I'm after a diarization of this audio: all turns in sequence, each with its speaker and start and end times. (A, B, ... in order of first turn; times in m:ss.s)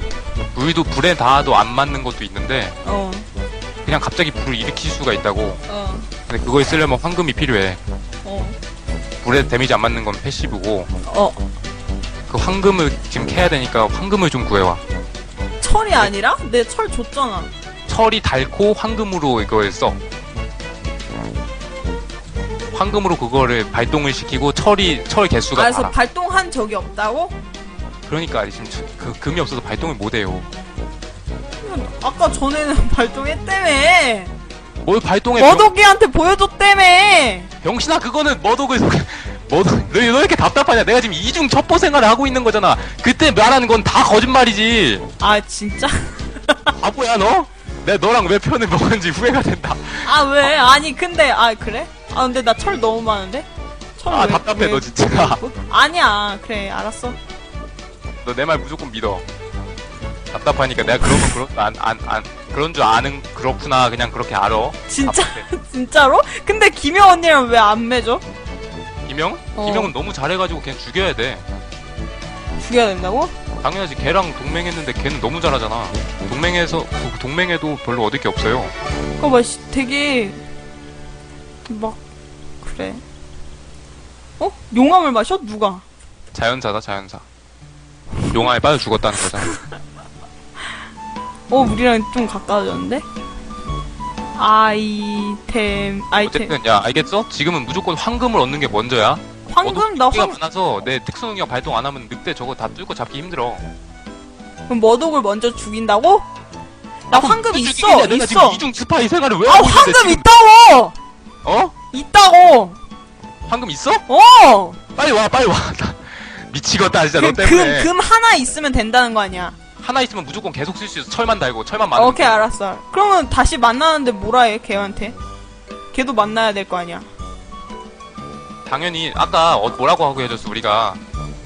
0:00.5-0:02.7 A
0:02.8-0:03.3 B
0:03.8-0:05.6 A
0:05.7-0:06.1 B
0:06.3-0:07.8 A
0:08.2-0:08.6 B
0:09.2-0:10.9 A
0:11.0-0:11.4 B
0:12.3-0:14.8 A
0:15.6-0:17.5 B
0:17.9-0:20.0 A
0:22.7-0:25.9 A
0:25.5-0:27.3 B
0:28.0-0:30.5 A
0:31.6-0:34.3 B
0:34.8-0:35.7 A
0:35.4-0:37.5 B
0:37.6-0:45.0 A
0:45.2-0:46.7 B
0:46.7-0:50.5 A
0:50.0-0:57.2 B
0:54.1-0:55.4 A
0:58.2-0:59.2 A
1:00.3-1:05.4 A
1:01.0-1:01.3 B
1:04.9-1:08.2 B
1:09.0-1:11.4 A
1:09.5-1:09.9 B
1:12.6-1:13.3 B
1:13.6-1:18.7 A
1:19.2-1:20.4 B
1:21.6-1:22.0 B
1:22.6-1:23.0 B
1:24.4-1:25.8 B
1:26.3-1:27.2 A
1:28.3-1:29.6 A
1:31.5-1:33.0 B
1:34.3-1:36.5 B
1:36.2-1:43.7 A
1:39.5-1:40.4 B
1:44.7-1:46.3 B
1:47.1-1:48.6 B
1:47.1-1:50.2 A
1:49.4-1:50.9 B
1:51.4-1:51.7 A
1:51.9-1:52.8 B
1:53.5-1:54.0 A
1:54.1-1:54.8 B
1:55.0-1:57.9 A
1:57.2-1:59.6 B
1:59.8-2:02.4 A
2:01.9-2:05.2 B
2:05.9-2:07.1 B
2:08.6-2:11.0 A